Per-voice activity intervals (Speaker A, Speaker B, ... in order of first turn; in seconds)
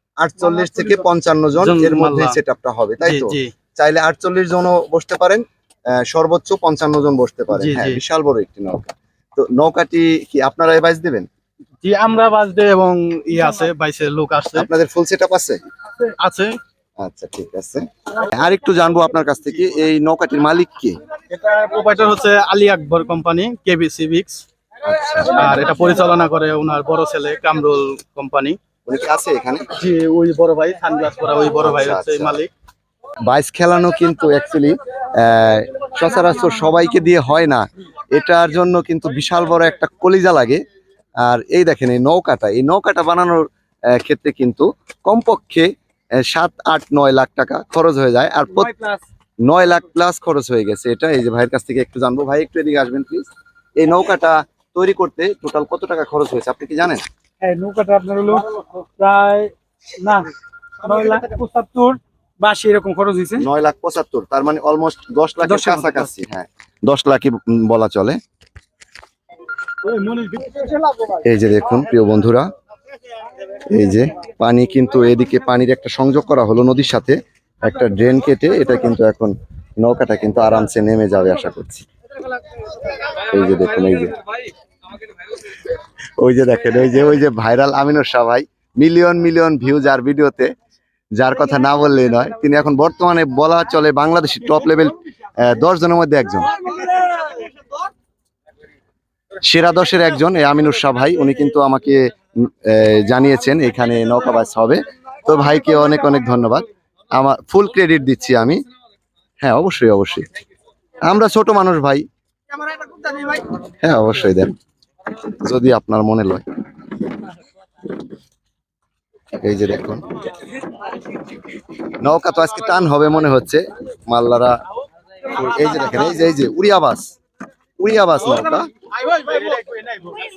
Speaker A: 0.2-11.3, 14.6-15.6, 17.0-21.0, 24.9-25.6, 28.9-29.7, 31.6-32.4, 33.3-40.6, 41.2-48.7, 49.5-57.0, 63.4-68.2, 71.2-72.5, 73.7-81.9, 83.0-84.3, 86.2-90.5, 91.2-97.0, 99.4-108.6, 109.4-110.3, 111.0-112.0, 113.1-114.5, 115.4-116.4, 119.4-120.0, 122.0-124.6, 125.2-127.1, 127.8-128.7
Speaker B: 1.6-2.4, 3.0-3.5, 7.5-8.0, 11.8-14.7, 16.0-16.6, 21.3-24.4, 25.1-28.6, 29.8-32.5, 129.1-129.9
Speaker C: 48.6-49.0, 57.4-63.5, 65.5-66.0, 69.8-70.7, 129.3-129.7